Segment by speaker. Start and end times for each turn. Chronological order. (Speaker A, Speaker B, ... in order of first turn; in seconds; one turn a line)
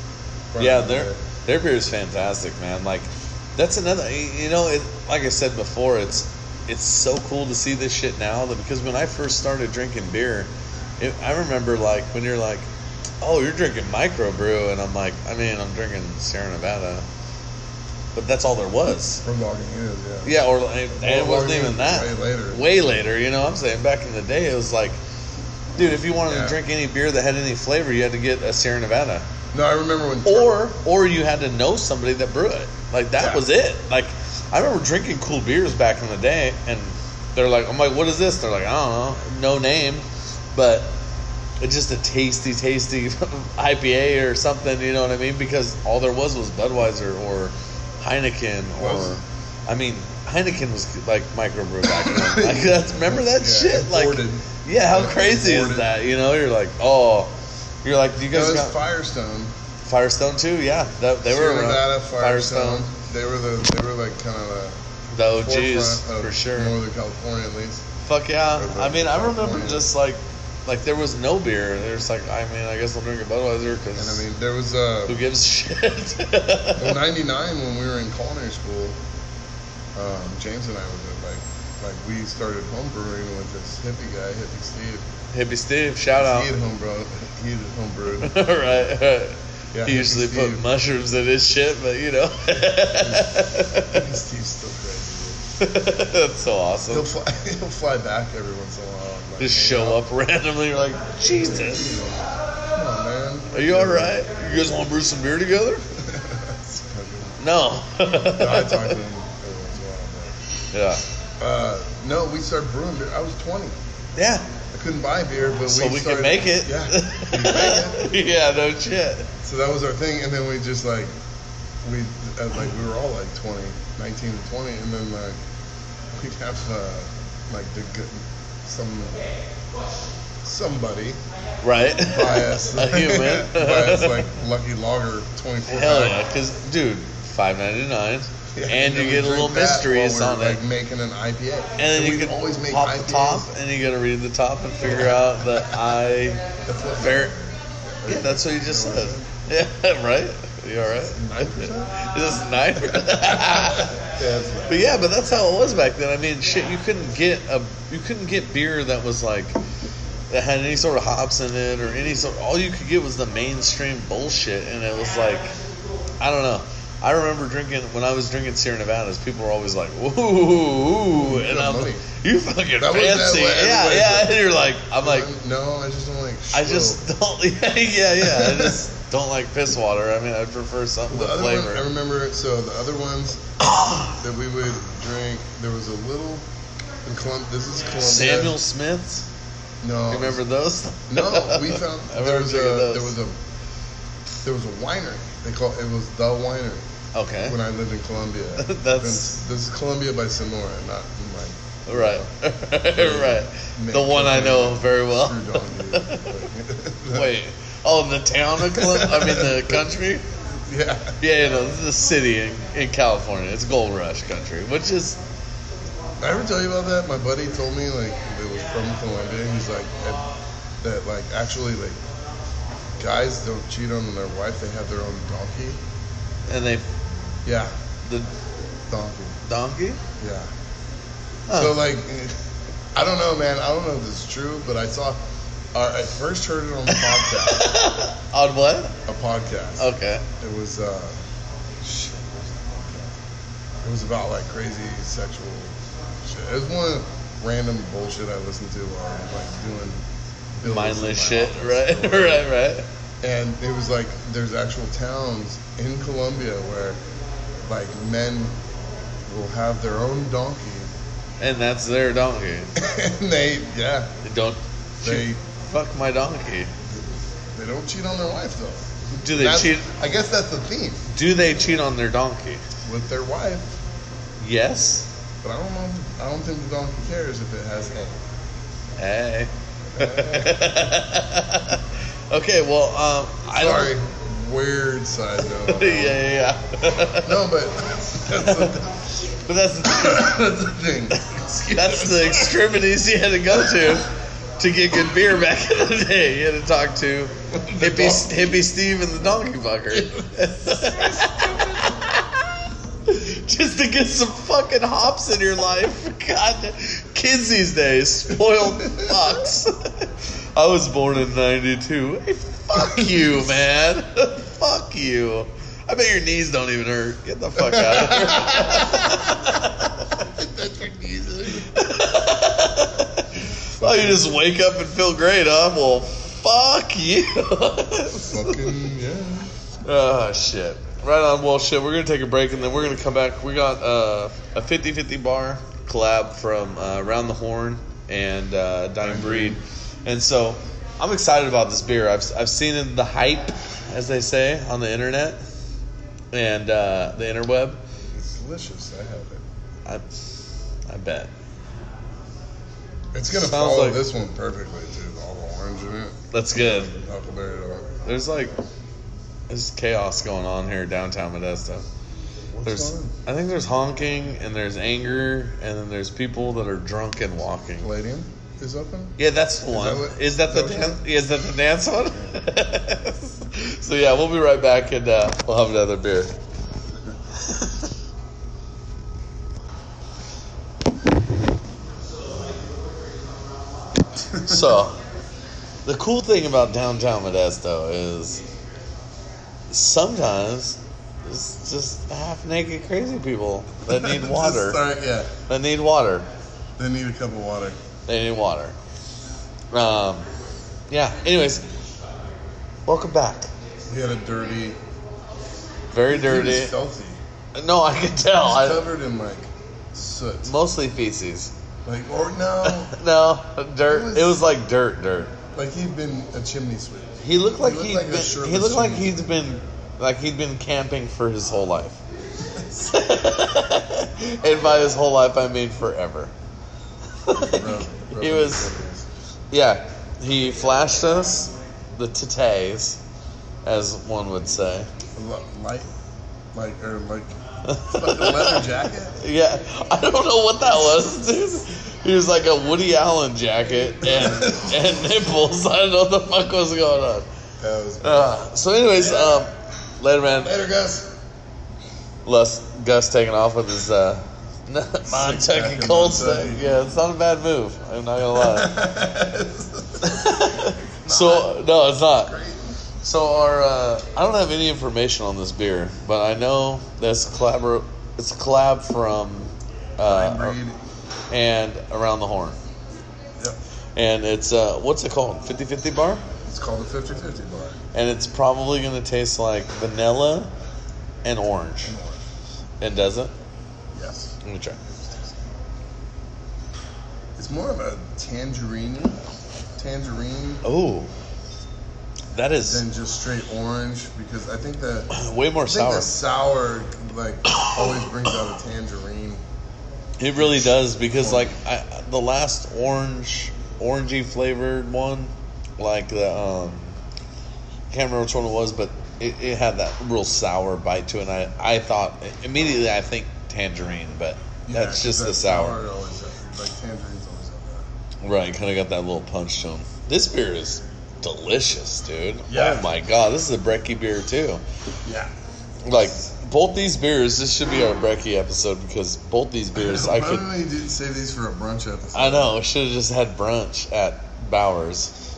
Speaker A: 0.5-1.2
Speaker B: 0.6-12.7
Speaker B: 13.2-17.1
Speaker B: 18.1-19.2
Speaker A: 19.2-20.4
Speaker B: 20.2-25.0
Speaker A: 20.9-22.7
Speaker B: 25.8-29.3
Speaker A: 26.2-26.6
Speaker A: 29.5-30.6
Speaker B: 30.2-41.0
Speaker A: 33.2-33.5
Speaker B: 41.6-58.8
Speaker A: 48.8-49.2
Speaker A: 51.9-55.9
Speaker A: 58.3-59.5
Speaker B: 59.8-62.9
Speaker A: 61.2-67.8
Speaker B: 65.1-66.8
Speaker B: 68.0-74.3
Speaker A: 68.5-69.9
Speaker A: 74.0-75.2
Speaker B: 75.1-77.0
Speaker A: 76.8-79.0
Speaker A: 80.0-85.1
Speaker B: 85.3-86.5
Speaker A: 86.2-88.3
Speaker B: 88.2-94.0
Speaker A: 89.7-90.7
Speaker A: 92.7-95.5
Speaker B: 95.6-97.1
Speaker A: 96.9-100.0
Speaker B: 99.4-102.1
Speaker A: 101.3-104.2
Speaker B: 103.5-105.9
Speaker A: 106.0-107.4
Speaker B: 107.4-109.0
Speaker A: 108.3-110.4
Speaker B: 110.7-111.0
Speaker A: 111.4-113.8
Speaker B: 114.2-114.5
Speaker A: 114.7-118.1
Speaker B: 115.7-119.3
Speaker A: 119.4-121.1
Speaker A: 121.8-125.4
Speaker A: 126.1-129.3
Speaker A: 130.4-131.2
Speaker B: 131.6-134.3
Speaker A: 132.1-136.2
Speaker B: 135.7-140.6
Speaker A: 138.5-143.5
Speaker B: 141.8-147.4
Speaker A: 144.8-145.8
Speaker A: 146.7-147.5
Speaker A: 148.0-149.3
Speaker B: 148.1-154.0
Speaker A: 150.9-152.1
Speaker A: 153.1-155.0
Speaker B: 154.7-159.6
Speaker B: 160.3-165.6
Speaker B: 166.2-175.3
Speaker A: 171.1-172.1
Speaker A: 172.8-174.4
Speaker A: 174.9-177.0
Speaker B: 176.5-181.8
Speaker A: 178.2-178.8
Speaker A: 181.1-186.5
Speaker B: 183.7-184.1
Speaker A: 187.0-188.6
Speaker B: 188.0-189.3
Speaker A: 189.8-190.4
Speaker B: 190.1-193.1
Speaker A: 191.1-193.4
Speaker A: 194.4-196.8
Speaker B: 197.1-197.6
Speaker A: 197.4-202.3
Speaker B: 198.6-199.3
Speaker B: 201.9-206.4
Speaker A: 202.9-207.3
Speaker B: 207.1-210.2
Speaker A: 208.6-209.9
Speaker A: 210.6-211.2
Speaker B: 211.2-215.2
Speaker A: 216.2-220.3
Speaker A: 220.8-222.0
Speaker A: 223.0-225.8
Speaker B: 226.5-226.9
Speaker A: 227.4-227.7
Speaker B: 228.1-228.3
Speaker A: 228.9-229.4
Speaker B: 229.4-230.0
Speaker A: 230.2-230.5
Speaker B: 231.5-231.8
Speaker A: 231.5-232.4
Speaker A: 232.9-235.2
Speaker A: 235.7-237.7
Speaker B: 236.9-239.0
Speaker A: 239.1-241.2
Speaker B: 239.8-240.2
Speaker A: 241.8-243.2
Speaker A: 243.8-252.5
Speaker B: 250.6-252.9
Speaker A: 253.2-257.0
Speaker A: 257.6-258.6
Speaker A: 259.3-260.9
Speaker B: 261.4-262.7
Speaker A: 262.8-264.1
Speaker B: 264.2-266.7
Speaker A: 265.0-265.4
Speaker A: 267.5-271.6
Speaker B: 269.2-269.9
Speaker B: 271.1-272.6
Speaker A: 272.9-273.7
Speaker B: 274.4-275.1
Speaker A: 275.4-278.2
Speaker B: 279.0-283.9
Speaker A: 279.9-280.6
Speaker A: 283.5-286.2
Speaker B: 285.7-287.4
Speaker A: 287.2-289.1
Speaker B: 288.4-288.8
Speaker B: 289.3-290.3
Speaker A: 289.8-292.6
Speaker B: 291.2-302.5
Speaker A: 293.5-293.9
Speaker A: 297.5-298.3
Speaker A: 299.9-301.9
Speaker B: 303.1-328.7
Speaker A: 308.9-309.2
Speaker A: 312.7-313.6
Speaker A: 317.6-319.3
Speaker A: 320.4-321.7
Speaker A: 323.8-324.4
Speaker A: 328.2-329.5
Speaker B: 329.8-345.4
Speaker A: 339.0-339.6
Speaker B: 346.3-347.8
Speaker A: 348.1-349.4
Speaker B: 350.9-351.3
Speaker A: 353.1-358.0
Speaker B: 353.3-354.0
Speaker B: 356.3-356.9
Speaker B: 358.1-358.6
Speaker B: 359.5-361.9
Speaker A: 362.5-363.1
Speaker B: 362.6-367.9
Speaker A: 367.8-371.0
Speaker B: 369.2-376.4
Speaker B: 377.4-377.8
Speaker A: 384.3-384.7
Speaker B: 384.3-385.0
Speaker B: 385.9-388.4
Speaker B: 389.7-394.8
Speaker A: 393.9-395.4
Speaker B: 395.5-396.3
Speaker A: 396.8-397.8
Speaker B: 398.1-398.8
Speaker B: 399.7-400.3
Speaker B: 400.9-401.7
Speaker B: 402.9-403.5
Speaker A: 403.9-404.8
Speaker B: 405.9-406.8
Speaker A: 406.1-407.2
Speaker B: 407.6-408.8
Speaker A: 408.4-410.5
Speaker B: 410.5-411.5
Speaker A: 411.9-412.9
Speaker B: 412.6-415.4
Speaker A: 413.9-414.5
Speaker A: 415.5-419.4
Speaker B: 417.2-422.0
Speaker A: 422.6-422.8
Speaker B: 422.8-426.3
Speaker B: 427.2-428.7
Speaker A: 427.3-429.1
Speaker B: 429.5-433.0
Speaker B: 433.6-434.9
Speaker A: 435.1-435.9
Speaker A: 436.5-439.2
Speaker B: 437.7-438.7
Speaker B: 439.2-447.3
Speaker A: 444.0-444.9
Speaker A: 447.6-448.4
Speaker B: 448.0-450.5
Speaker A: 448.9-449.5
Speaker A: 450.4-451.1
Speaker B: 452.2-458.7
Speaker A: 455.1-456.8
Speaker A: 458.3-460.3
Speaker B: 460.0-462.3
Speaker A: 461.0-462.8
Speaker B: 463.0-470.6
Speaker A: 470.1-470.8
Speaker B: 471.3-472.6
Speaker B: 474.0-476.2
Speaker A: 476.4-477.8
Speaker B: 477.9-480.5
Speaker B: 481.2-482.0
Speaker A: 481.8-482.2
Speaker B: 482.8-483.3
Speaker A: 483.9-484.4
Speaker B: 484.4-484.8
Speaker A: 487.4-489.2
Speaker A: 489.8-490.6
Speaker B: 490.6-491.1
Speaker B: 492.3-492.8
Speaker A: 492.6-495.1
Speaker B: 495.1-496.1
Speaker A: 495.6-499.4
Speaker B: 497.5-497.8
Speaker B: 500.2-507.0
Speaker A: 500.4-501.6
Speaker B: 507.9-515.8
Speaker A: 514.7-517.9
Speaker B: 518.2-524.6
Speaker A: 522.5-522.9
Speaker A: 525.0-525.3
Speaker B: 525.8-530.5
Speaker A: 529.8-532.5
Speaker B: 532.1-535.1